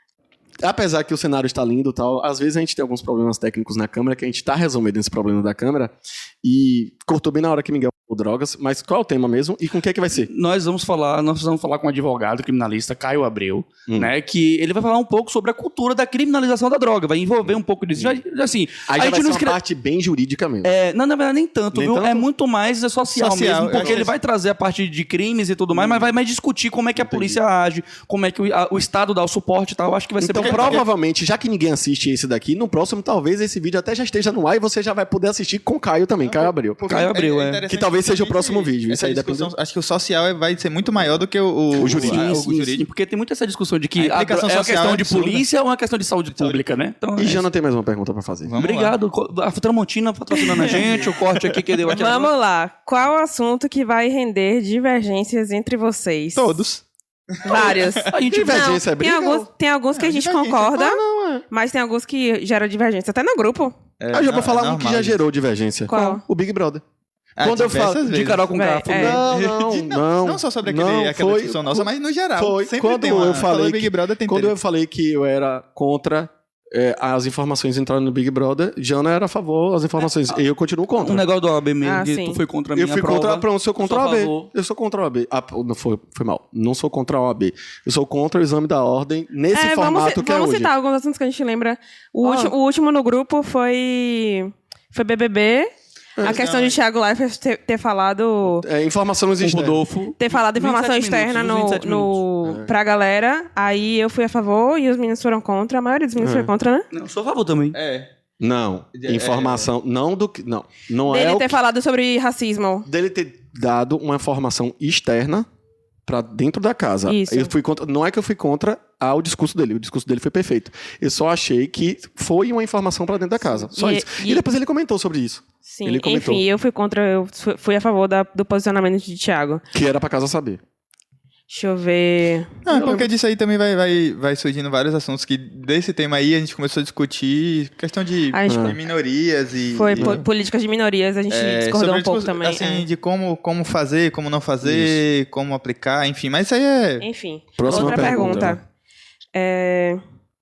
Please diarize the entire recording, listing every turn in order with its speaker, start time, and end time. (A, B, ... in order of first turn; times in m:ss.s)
0:00.6-0:10.3 A
0:10.3-0:19.6 B
0:13.9-0:14.1 A
0:18.9-0:20.7 A
0:20.6-0:30.8 B
0:21.7-0:22.3 A
0:23.2-0:24.1 C
0:23.8-0:24.1 A
0:25.7-0:26.1 A
0:27.0-0:27.4 A
0:30.2-0:36.8 A
0:30.4-0:30.8 C
0:36.2-0:42.8 C
0:36.9-0:37.6 B
0:37.7-0:39.5 A
0:41.7-0:47.4 B
0:41.8-0:42.3 A
0:44.0-0:45.4 C
0:47.2-0:48.5 A
0:48.5-0:49.0 C
0:48.6-0:52.3 B
0:50.4-0:50.8 D
0:51.9-0:56.6 D
0:56.4-0:58.1 C
0:57.4-1:03.7 D
0:58.1-0:58.8 B
0:58.3-0:59.5 A
0:59.9-1:00.8 C
1:00.7-1:01.5 A
1:04.0-1:05.2 C
1:04.1-1:06.8 A
1:05.9-1:06.2 D
1:07.4-1:08.5 C
1:07.4-1:08.1 A
1:08.0-1:09.2 B
1:08.5-1:09.2 D
1:08.9-1:21.3 A
1:09.1-1:14.5 C
1:21.0-1:24.5 B
1:21.8-1:22.4 D
1:22.8-1:30.7 A
1:29.5-1:35.7 D
1:32.2-1:32.5 B
1:36.2-1:36.5 A
1:36.2-1:38.7 D
1:36.3-1:36.8 C
1:38.6-1:39.8 A
1:39.4-1:42.2 B
1:40.2-1:46.9 D
1:42.4-1:42.7 A
1:46.2-1:46.5 A
1:46.9-1:47.8 B
1:47.7-1:48.1 C
1:48.4-1:51.6 A
1:48.9-1:49.7 C
1:51.1-1:52.9 D
1:52.9-1:55.5 A
1:56.1-2:06.4 A
1:57.1-1:57.5 D
2:03.7-2:04.4 D
2:05.6-2:09.6 D
2:09.7-2:10.6 A
2:11.5-2:12.7 D
2:12.7-2:20.2 C
2:18.3-2:18.8 D
2:18.5-2:18.8 A
2:19.8-2:22.8 D
2:20.0-2:20.2 A
2:21.3-2:27.1 C
2:24.6-2:25.0 A
2:27.0-2:28.6 D
2:27.6-2:28.6 A
2:27.6-2:28.4 C
2:29.4-2:30.0 D